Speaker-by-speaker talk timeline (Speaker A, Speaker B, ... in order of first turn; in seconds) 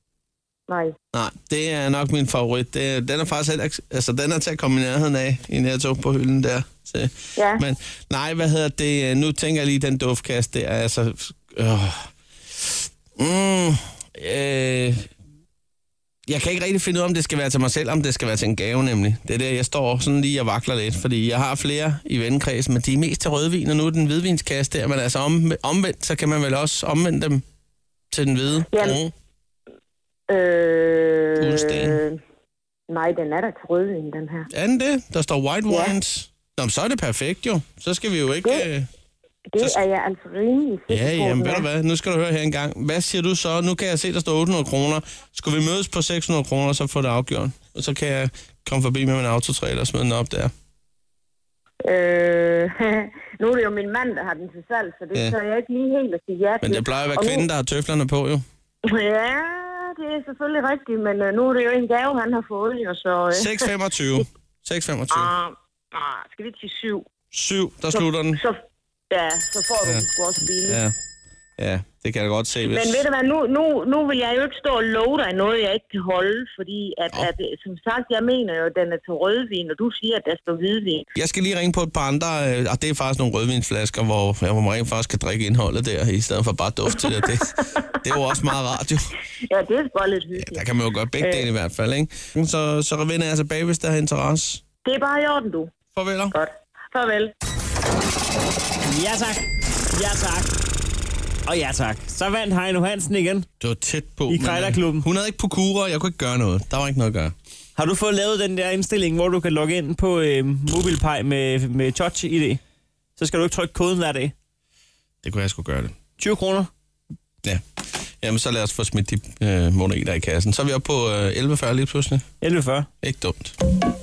Speaker A: 0.7-0.9, 7.3-7.6, 28.7-29.0, 30.3-32.2, 32.9-34.5, 35.7-36.0, 39.5-41.7, 51.8-57.5, 58.9-63.7, 65.1-67.0, 67.9-68.6, 69.1-70.8, 72.6-81.0, 89.5-90.7, 91.2-91.5, 94.8-95.7, 96.3-97.3
Speaker B: 1.1-15.1, 16.3-27.4, 28.1-29.1, 31.4-32.0, 34.5-38.9, 40.9-50.5, 56.6-58.4, 63.3-65.3, 67.3-68.4, 69.8-70.9, 71.6-73.1, 81.1-89.1, 90.3-94.6, 95.9-96.3, 103.6-107.3, 115.2-115.9, 118.2-122.2, 123.0-123.5
Speaker C: 98.8-100.5, 101.5-103.5, 104.3-105.1, 107.8-112.6, 113.2-114.3, 116.2-116.7, 122.4-122.9